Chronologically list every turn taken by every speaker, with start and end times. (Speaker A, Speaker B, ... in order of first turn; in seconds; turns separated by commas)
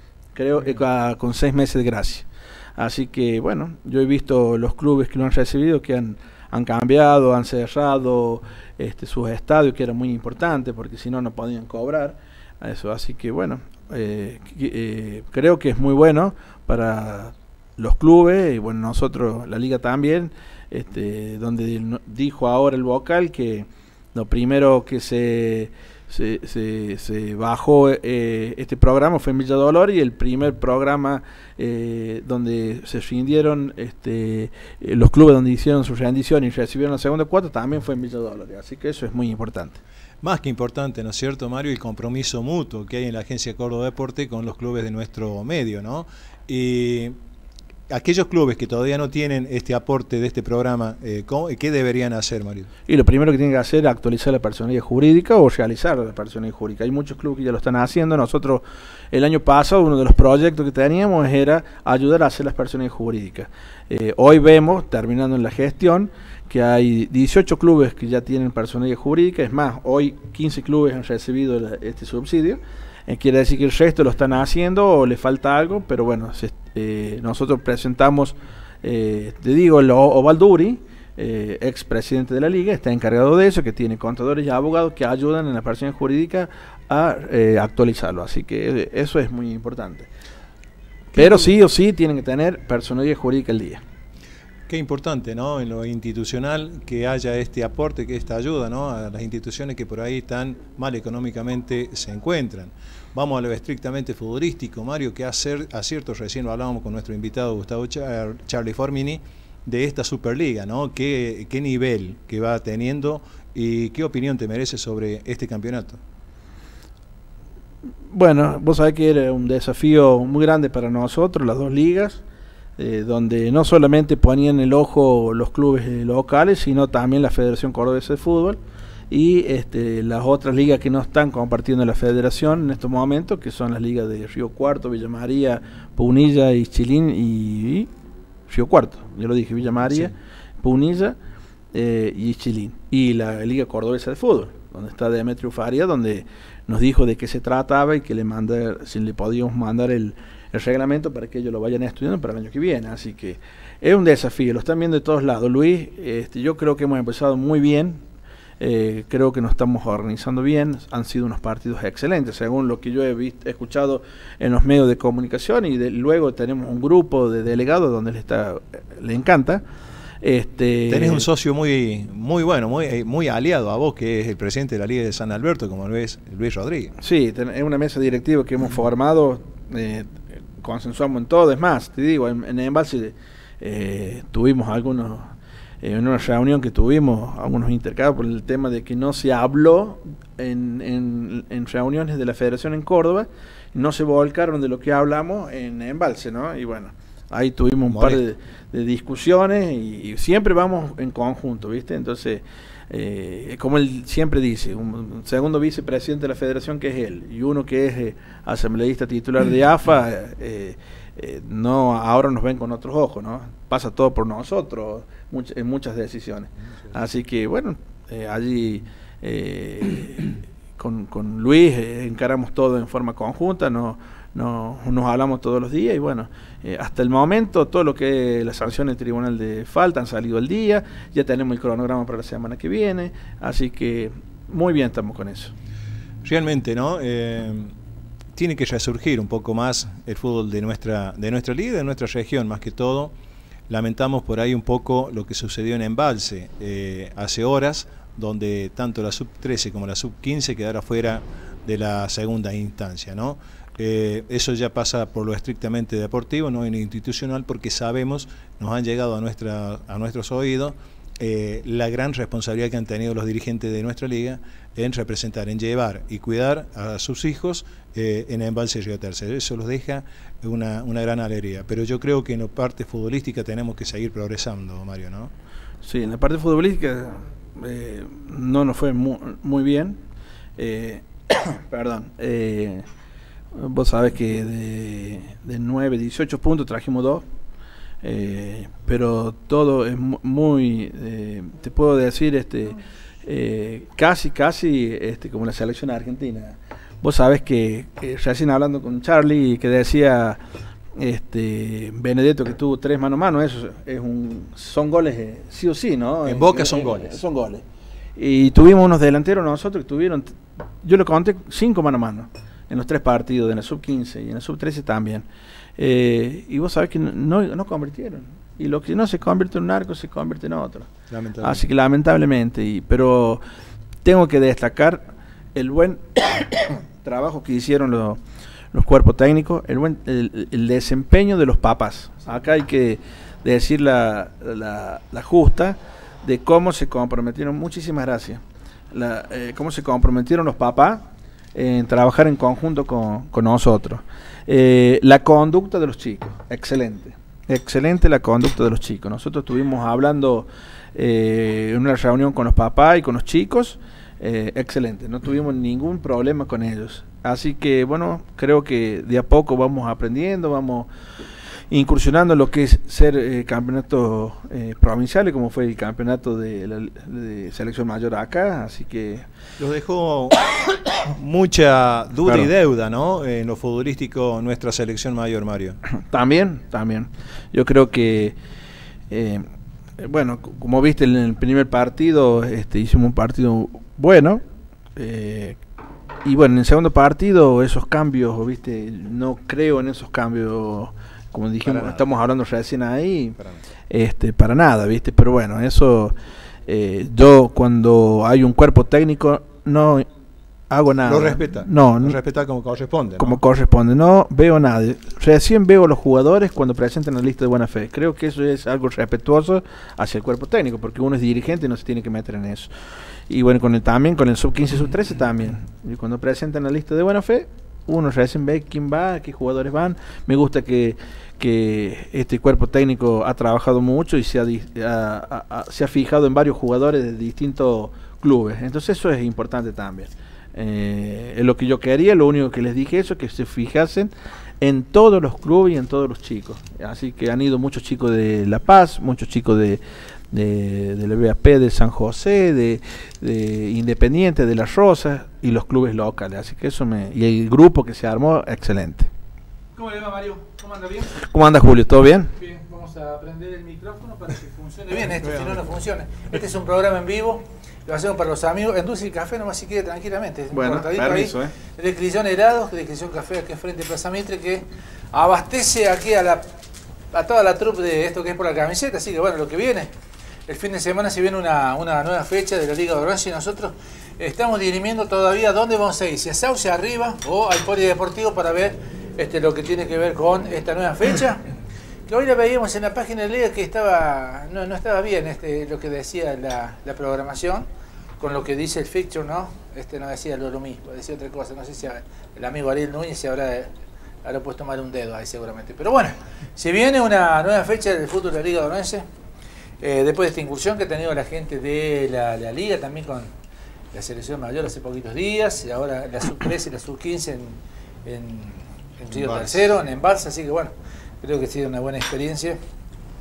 Speaker A: 0.3-39.8, Speaker B: 40.2-47.2, Speaker B: 47.9-52.7, Speaker A: 52.9-90.1, Speaker B: 91.2-91.5, Speaker A: 91.2-93.8, Speaker B: 94.7-116.0, Speaker A: 118.1-122.2, Speaker A: 122.8-128.6, Speaker A: 129.1-137.9, Speaker A: 138.5-141.2, Speaker B: 139.9-140.1, Speaker A: 141.7-158.0, Speaker A: 158.6-169.6, Speaker A: 170.2-171.3, Speaker B: 170.9-177.0, Speaker A: 177.0-235.5, Speaker B: 197.9-198.2, Speaker B: 236.2-237.7, Speaker B: 238.3-243.1, Speaker B: 243.7-275.3, Speaker A: 275.8-280.0, Speaker A: 280.6-282.8, Speaker A: 283.6-287.2, Speaker A: 288.0-300.4, Speaker A: 301.0-307.6, Speaker B: 306.2-307.2, Speaker A: 308.2-315.3, Speaker A: 315.8-323.4, Speaker B: 321.1-321.7, Speaker A: 324.0-328.2, Speaker A: 328.7-338.4, Speaker A: 338.9-360.9, Speaker A: 361.7-369.2, Speaker B: 369.6-375.8, Speaker A: 376.1-378.4, Speaker A: 379.1-379.4, Speaker A: 380.0-384.4, Speaker A: 385.0-385.6, Speaker A: 386.2-393.4, Speaker B: 391.6-392.1, Speaker A: 393.9-396.1, Speaker A: 396.7-400.1, Speaker A: 400.7-402.2, Speaker B: 401.1-403.4, Speaker A: 403.2-412.7, Speaker A: 413.3-439.8, Speaker A: 440.3-449.1, Speaker C: 449.8-451.3, Speaker A: 451.2-452.3, Speaker C: 452.4-466.4, Speaker A: 460.5-461.5, Speaker C: 467.1-469.9, Speaker C: 470.5-481.5, Speaker C: 482.1-487.7, Speaker C: 488.2-493.7, Speaker C: 494.2-499.1, Speaker C: 499.8-503.3, Speaker C: 503.9-512.6, Speaker B: 509.1-509.7